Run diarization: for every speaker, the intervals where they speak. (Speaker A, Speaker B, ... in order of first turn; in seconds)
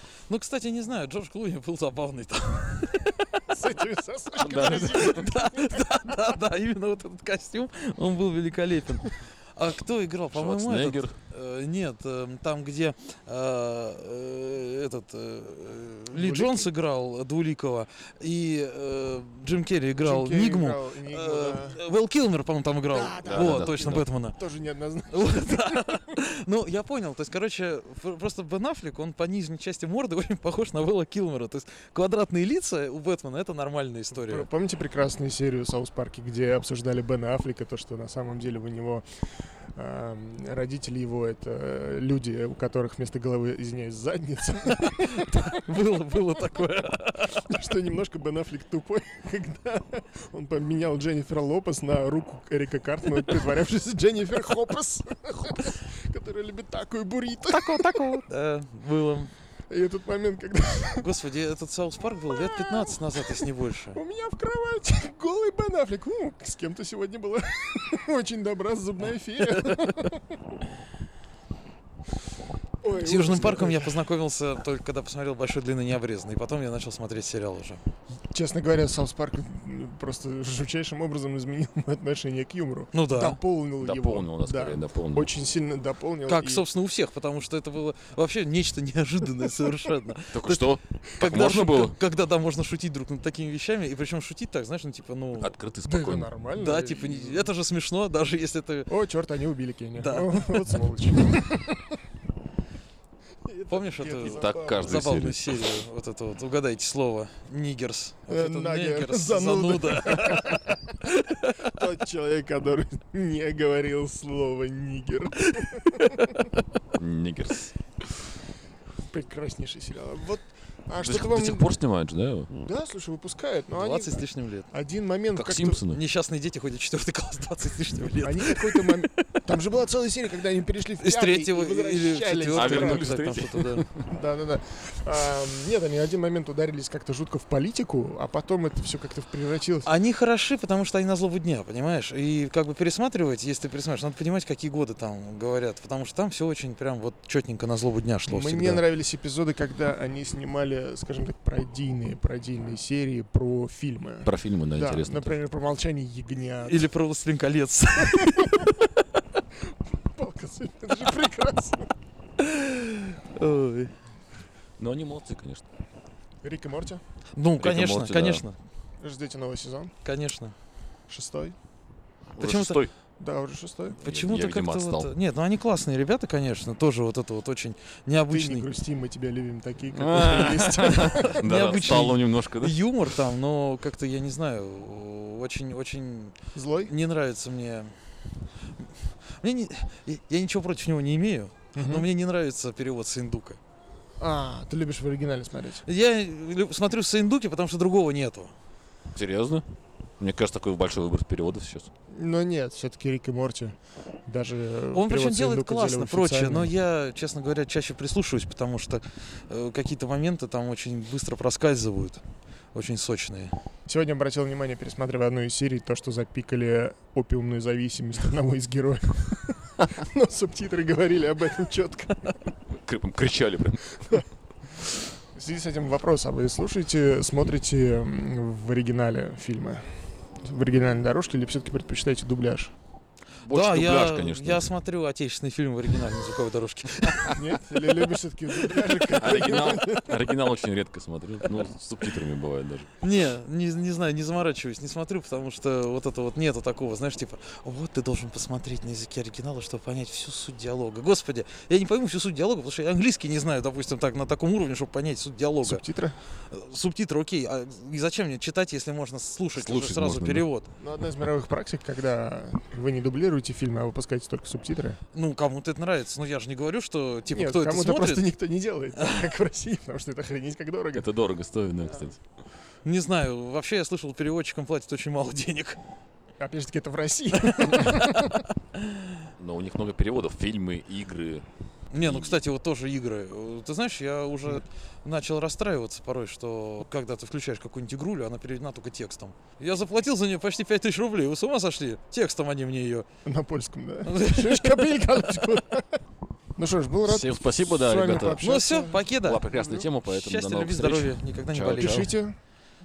Speaker A: 0.3-3.4, 4.7-24.4, 25.1-34.5, 45.2-47.4, 57.5-59.3, 61.0-64.0, 72.9-77.8, 82.9-83.4, 86.2-95.5, 96.5-98.9, 100.0-100.7, 103.7-111.6, 115.9-116.4, 123.7-124.7, 125.9-129.4, 131.0-133.8, 139.8-148.8, 156.7-159.0, 162.4-163.9, 167.3-168.5, 170.0-170.5, 172.4-172.8, 174.0-178.7, 181.2-187.9, 189.4-193.6, 195.8-198.5, 204.9-212.2, 212.7-213.5, 233.5-237.4, 243.0-255.8, 256.5-260.7, 265.1-268.3, 272.8-275.8, 277.6-278.0, 281.9-293.1, 294.0-295.3, 298.4-302.1
Speaker B: 3.5-6.1, 16.1-16.7, 20.0-21.8, 22.9-26.0, 34.1-39.0, 39.8-46.2, 47.3-58.2, 59.7-61.1, 62.1-70.5, 72.8-74.0, 78.3-86.7, 95.8-97.5, 98.9-101.9, 103.5-105.1, 108.3-110.8, 111.6-116.5, 119.1-121.8, 122.5-125.8, 128.2-133.1, 134.1-139.9, 148.3-156.9, 158.1-158.7, 159.7-161.9, 166.4-167.0, 169.0-169.9, 171.1-171.5, 173.2-174.0, 178.3-182.1, 186.5-186.9, 191.7-192.1, 194.2-195.8, 202.1-206.7, 213.8-222.4, 225.3-232.7, 237.3-240.3, 255.6-256.2, 260.8-265.0, 267.3-271.1, 276.4-278.4, 293.2-296.0, 296.6-299.9, 301.7-302.4
Speaker C: 4.3-5.3, 10.3-11.2, 23.2-24.1, 83.8-85.3, 90.3-92.0, 95.4-96.3, 104.1-105.8, 116.9-117.8, 121.0-122.5, 125.3-126.0, 132.5-134.0, 154.2-155.4, 164.8-165.6, 167.6-168.4, 172.3-172.9, 174.0-175.1, 179.9-182.8, 199.1-199.7, 200.2-201.9, 222.8-224.2, 233.4-234.7, 239.1-242.9, 259.5-260.4, 270.9-272.2, 279.4-281.4, 282.0-282.4, 297.0-298.6, 299.2-302.1